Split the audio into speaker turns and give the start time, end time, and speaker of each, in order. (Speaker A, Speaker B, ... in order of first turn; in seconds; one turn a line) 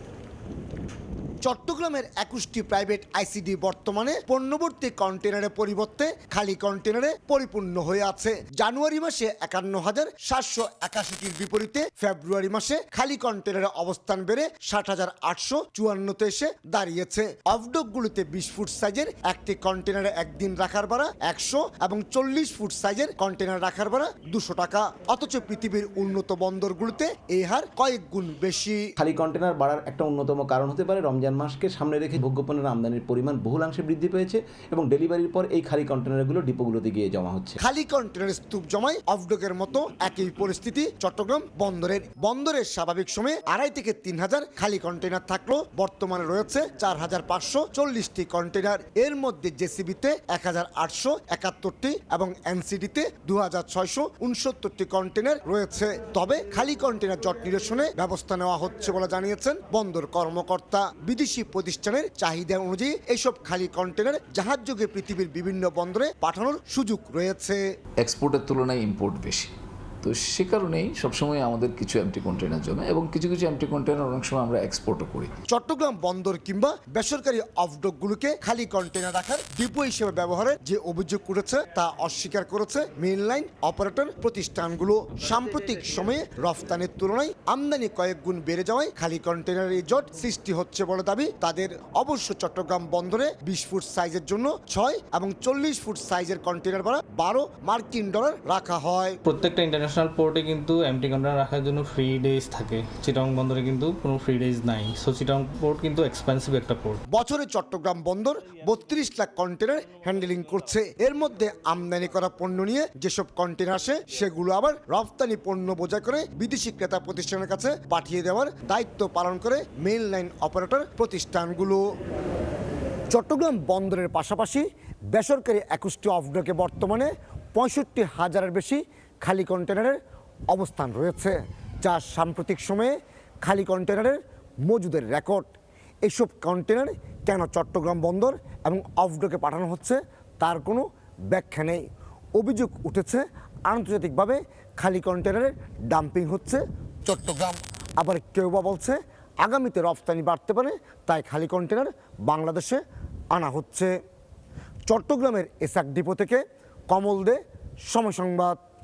Speaker A: 1.4-28.9
Speaker B: 29.0-37.6
Speaker A: 37.6-67.6
Speaker C: 68.0-69.5
Speaker C: 70.0-75.3
Speaker A: 75.5-99.2
Speaker D: 99.2-107.0
Speaker A: 107.1-121.8
Speaker A: 123.1-135.5
Speaker A: 136.0-152.8
Speaker A: 153.3-153.9
Speaker A: 154.9-158.6